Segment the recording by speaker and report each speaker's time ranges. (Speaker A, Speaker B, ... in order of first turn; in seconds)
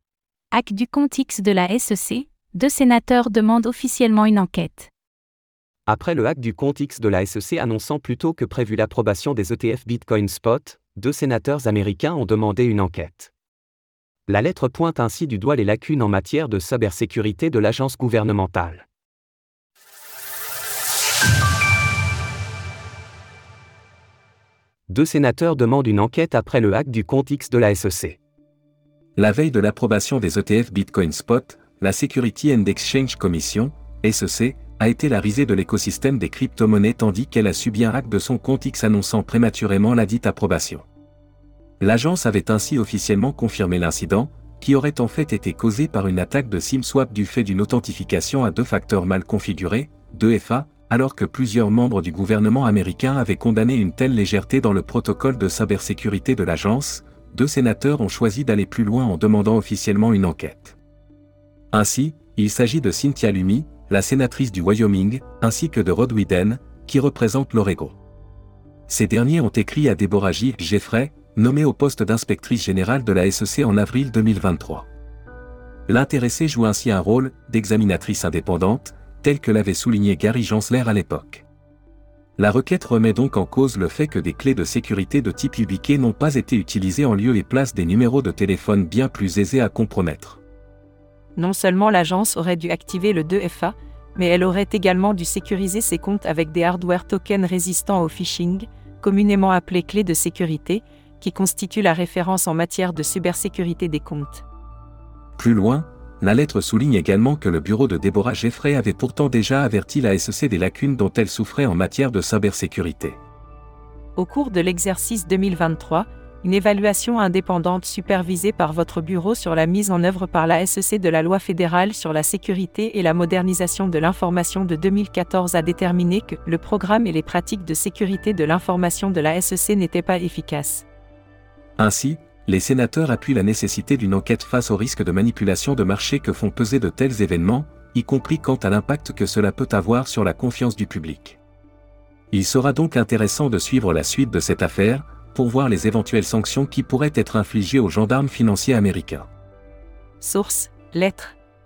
Speaker A: 0.5-4.9
Speaker B: 5.9-13.2, 14.3-18.9, 24.9-28.2
Speaker C: 29.2-40.9, 41.8-60.8, 61.7-68.0, 68.9-74.9, 75.9-81.4, 82.4-90.4, 105.4-113.2, 131.8-141.4, 142.3-149.3
Speaker D: 91.4-104.4, 114.2-130.9, 150.2-151.4